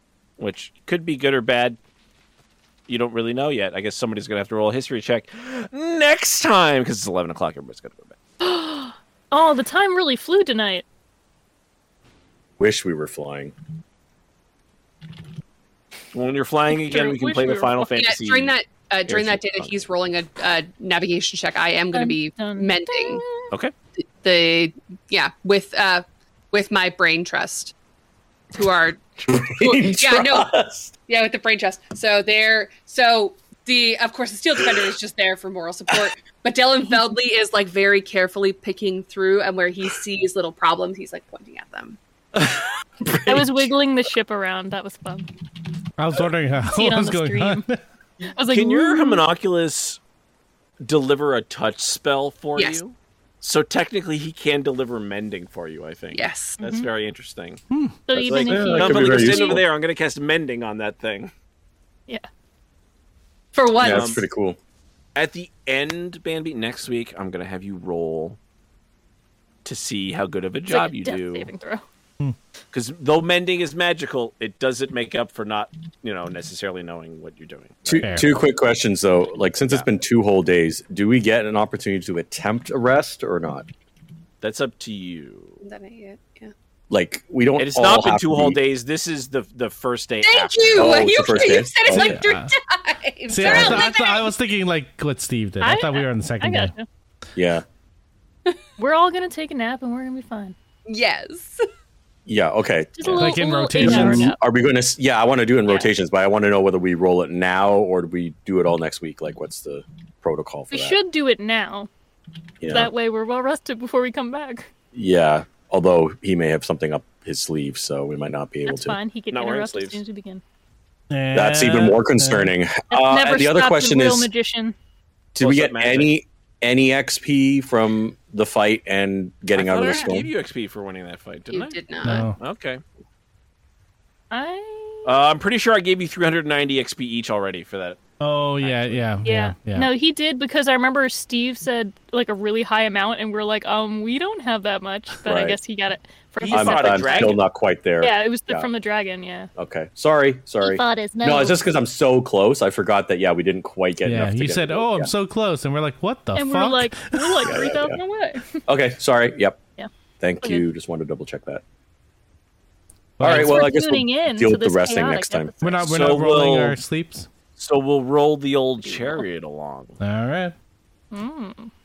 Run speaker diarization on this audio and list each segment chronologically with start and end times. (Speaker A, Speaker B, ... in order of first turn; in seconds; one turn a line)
Speaker A: 0.4-1.8
Speaker A: 2.9-8.2
Speaker B: 8.4-10.8
Speaker C: 12.6-13.5
Speaker A: 16.1-18.5
Speaker B: 16.7-17.9
Speaker D: 18.0-23.2
Speaker A: 19.1-19.9
Speaker B: 21.9-23.5
Speaker D: 24.0-27.7
Speaker D: 28.5-30.5
Speaker C: 29.3-30.9
Speaker D: 31.1-42.0
Speaker C: 42.3-43.7
Speaker B: 43.2-45.3
Speaker E: 46.0-47.8
Speaker B: 46.7-47.6
Speaker B: 48.2-49.2
Speaker A: 48.5-50.0
Speaker A: 50.8-57.6
Speaker D: 56.1-56.6
Speaker B: 56.6-56.9
Speaker E: 57.7-58.0
Speaker B: 58.1-59.6
Speaker C: 58.1-59.6
Speaker A: 58.2-61.3
Speaker D: 63.5-64.2
Speaker A: 63.8-64.2
Speaker C: 63.8-64.6
Speaker A: 65.2-68.4
Speaker A: 69.6-71.5
Speaker B: 70.7-71.8
Speaker A: 72.7-78.4
Speaker C: 77.9-83.7
Speaker E: 78.0-78.3
Speaker A: 84.4-85.6
Speaker D: 85.6-86.5
Speaker C: 86.9-88.6
Speaker A: 87.6-91.1
Speaker D: 90.2-94.2
Speaker C: 90.7-92.2
Speaker E: 92.0-92.5
Speaker E: 93.3-96.7
Speaker C: 93.4-93.8
Speaker B: 93.6-94.2
Speaker B: 95.6-96.9
Speaker C: 97.3-97.6
Speaker B: 98.8-100.5
Speaker D: 100.9-101.6
Speaker C: 102.2-111.0
Speaker B: 103.0-104.4
Speaker E: 103.2-104.3
Speaker B: 105.7-105.9
Speaker B: 110.7-111.9
Speaker C: 112.6-112.9
Speaker B: 112.7-114.7
Speaker C: 114.9-119.0
Speaker B: 118.7-120.4
Speaker A: 119.3-120.0
Speaker E: 121.1-122.5
Speaker C: 121.3-124.3
Speaker B: 122.9-124.8
Speaker C: 125.3-130.3
Speaker A: 125.3-126.1
Speaker A: 129.5-132.8
Speaker D: 131.5-132.3
Speaker E: 132.0-132.4
Speaker B: 134.3-135.2
Speaker A: 135.0-138.0
Speaker E: 138.2-139.9
Speaker A: 138.6-139.0
Speaker B: 139.2-147.4
Speaker C: 145.2-145.6
Speaker A: 146.4-147.4
Speaker C: 146.5-148.7
Speaker B: 148.0-149.5
Speaker C: 149.6-155.1
Speaker B: 150.6-151.6
Speaker E: 154.0-157.6
Speaker B: 156.3-158.6
Speaker C: 157.4-158.0
Speaker C: 158.7-159.6
Speaker C: 160.2-161.6
Speaker B: 160.4-160.7
Speaker E: 163.2-163.7
Speaker C: 163.2-165.5
Speaker B: 163.2-166.0
Speaker E: 165.6-167.3
Speaker A: 165.8-166.8
Speaker A: 167.6-170.0
Speaker B: 168.8-169.2
Speaker E: 170.0-170.5
Speaker B: 171.1-171.7